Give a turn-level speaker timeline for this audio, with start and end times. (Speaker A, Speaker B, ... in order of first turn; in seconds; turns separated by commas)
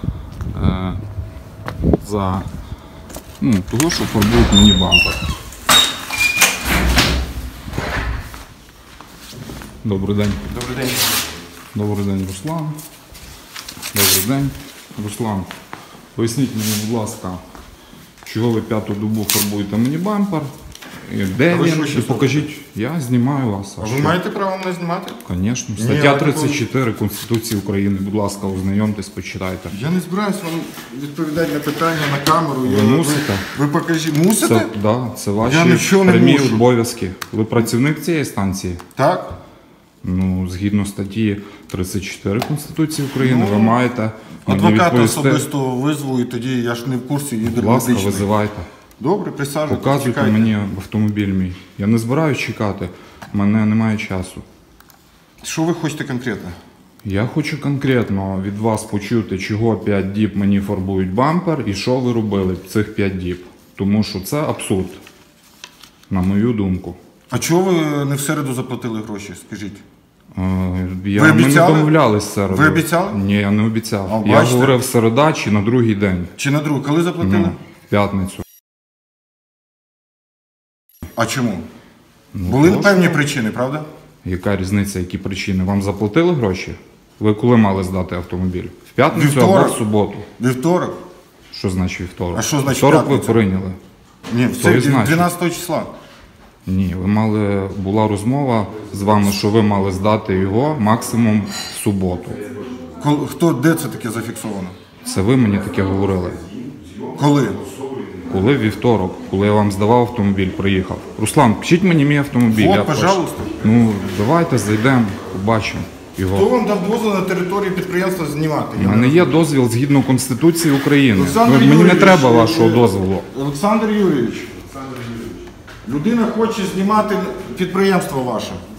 Speaker A: 0.5-1.0, Speaker A: 2.0-2.5, Speaker A: 3.4-5.2, Speaker A: 9.8-10.4, Speaker B: 10.5-11.2, Speaker A: 11.7-12.8, Speaker A: 13.9-15.5, Speaker A: 16.1-17.4, Speaker A: 18.2-20.5, Speaker A: 21.0-24.2, Speaker B: 21.5-22.4, Speaker B: 23.8-25.2, Speaker A: 25.2-29.7, Speaker B: 25.7-26.6, Speaker B: 29.7-34.7, Speaker A: 32.6-33.4, Speaker A: 34.4-38.8, Speaker B: 35.4-36.7, Speaker B: 39.0-39.4, Speaker A: 40.0-45.5, Speaker B: 43.2-43.8, Speaker B: 44.5-48.3, Speaker A: 47.5-48.7, Speaker B: 49.0-50.5, Speaker A: 49.7-54.4, Speaker B: 55.4-56.5, Speaker A: 57.0-65.0, Speaker A: 66.1-67.0, Speaker B: 67.3-69.8, Speaker A: 70.3-76.3, Speaker B: 71.1-71.9, Speaker B: 72.5-73.2, Speaker B: 74.1-74.8, Speaker B: 76.4-77.5, Speaker A: 77.2-78.4, Speaker B: 81.2-81.6, Speaker A: 82.3-83.2, Speaker B: 82.4-83.9, Speaker A: 84.2-90.3, Speaker B: 89.1-89.8, Speaker B: 90.4-90.9, Speaker A: 91.5-93.8, Speaker B: 92.3-93.4, Speaker B: 94.3-95.9, Speaker A: 94.5-95.3, Speaker A: 96.7-102.4, Speaker B: 103.0-104.8, Speaker A: 105.0-116.5, Speaker B: 107.2-107.6, Speaker B: 112.5-113.6, Speaker B: 116.3-119.3, Speaker A: 118.8-123.3, Speaker B: 121.1-124.7, Speaker B: 125.8-128.6